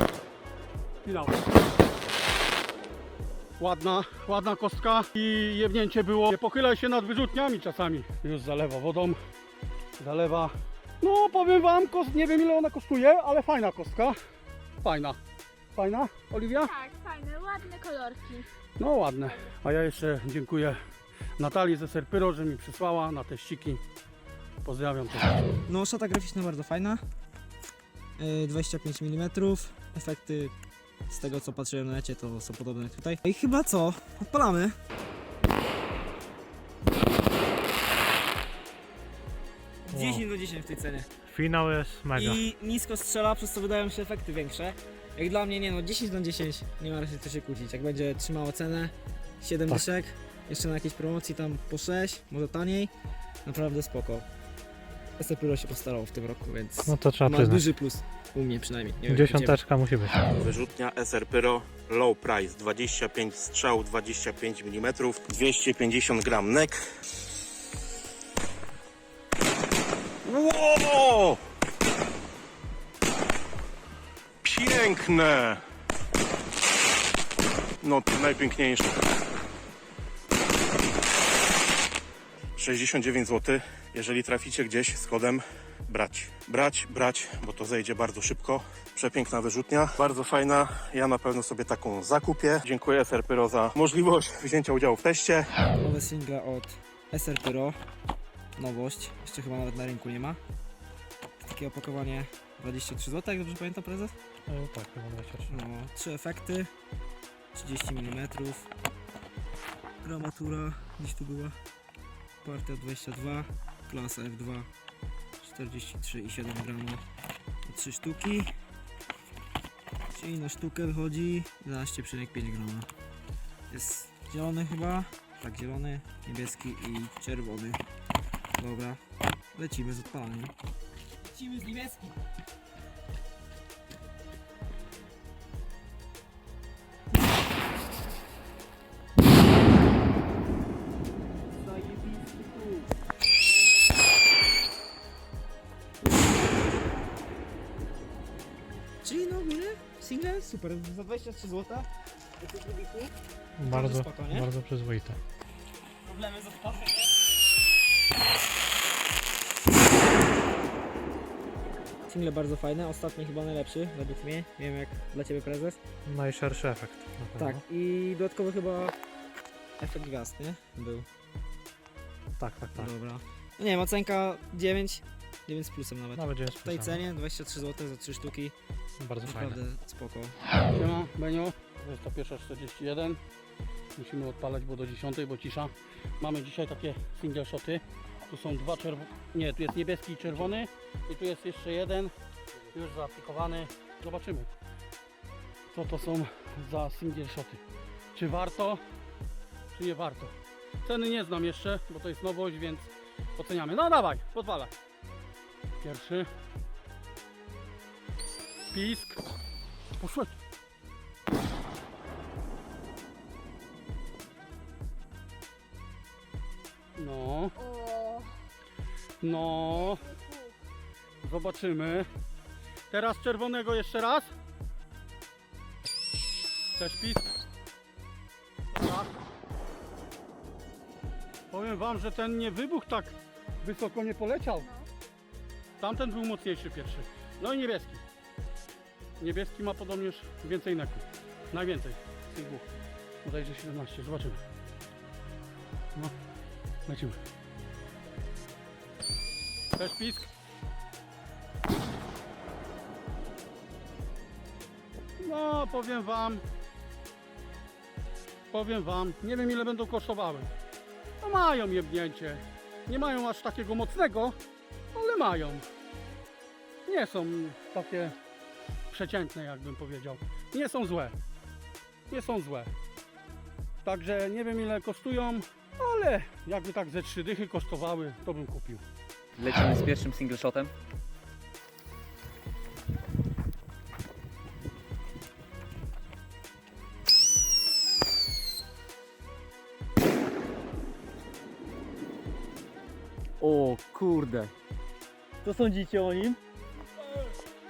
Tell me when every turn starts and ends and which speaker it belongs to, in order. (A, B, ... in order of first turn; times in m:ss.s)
0:01.0-0:01.4 A
0:03.6-0:09.2 A
0:10.0-0:14.2 A
0:14.8-0:15.2 A
0:15.8-0:16.8 A
0:18.8-0:20.8 A
0:21.4-0:23.8 A
0:24.6-0:25.4 A
0:25.7-0:27.0 B
0:28.2-0:30.5 B
0:31.1-0:34.8 B
0:39.9-0:41.1 B
0:39.9-0:40.2 C
0:41.3-0:42.4 C
0:42.1-0:52.9 B
0:53.4-0:54.3 B
0:55.2-0:59.6 B
0:56.8-0:57.7 C
0:59.1-1:00.2 C
1:00.4-1:06.8 D
1:10.2-1:11.4 D
1:14.4-1:15.6 D
1:17.8-1:18.9 D
1:22.6-1:35.5 D
1:35.8-1:37.8 B
1:38.6-1:40.4 B
1:41.4-1:44.1 B
1:44.5-1:45.6 C
1:45.5-1:46.7 B
1:47.5-1:48.7 B
1:50.0-1:51.6 B
1:52.4-1:54.7 B
1:55.4-1:57.0 B
1:57.7-1:58.5 B
2:00.1-2:02.9 B
2:03.7-2:07.8 B
2:08.6-2:09.0 B
2:09.6-2:10.5 B
2:11.4-2:11.9 B
2:21.8-2:22.4 B
2:29.0-2:31.9 B
2:32.4-2:33.1 B
2:33.6-2:35.2 C
2:33.6-2:34.5 B
2:36.1-2:36.8 B
2:42.1-2:45.8 B
2:46.1-2:47.6 C
2:47.4-2:48.9 B
2:49.8-2:51.1 B
2:52.4-2:52.9 C
2:52.7-2:58.5 B
2:56.1-2:57.0 C
2:59.0-2:59.6 C
2:59.2-3:00.4 B
3:00.7-3:03.2 A
3:04.0-3:12.1 A
3:12.7-3:14.5 A
3:15.7-3:17.6 A
3:18.1-3:18.8 A
3:19.7-3:20.3 A
3:20.8-3:24.7 A
3:25.8-3:26.3 A
3:28.7-3:29.2 A
3:30.0-3:30.4 A
3:37.0-3:37.6 A
3:39.2-3:40.2 A
3:41.2-3:42.1 A
3:42.9-3:44.3 A
3:46.8-3:47.3 A
3:48.7-3:49.2 A
3:51.5-3:54.7 A
3:55.8-3:58.0 A
3:59.2-4:02.7 A
4:03.2-4:04.4 A
4:06.9-4:07.2 A
4:09.8-4:10.3 A
4:15.2-4:16.4 A
4:18.5-4:20.5 A
4:21.2-4:24.4 A
4:24.9-4:25.7 A
4:26.9-4:28.2 A
4:28.9-4:31.2 A
4:32.1-4:32.7 A
4:33.8-4:38.8 A
4:39.4-4:40.7 E
4:53.4-4:54.5 E
4:55.4-4:56.4 E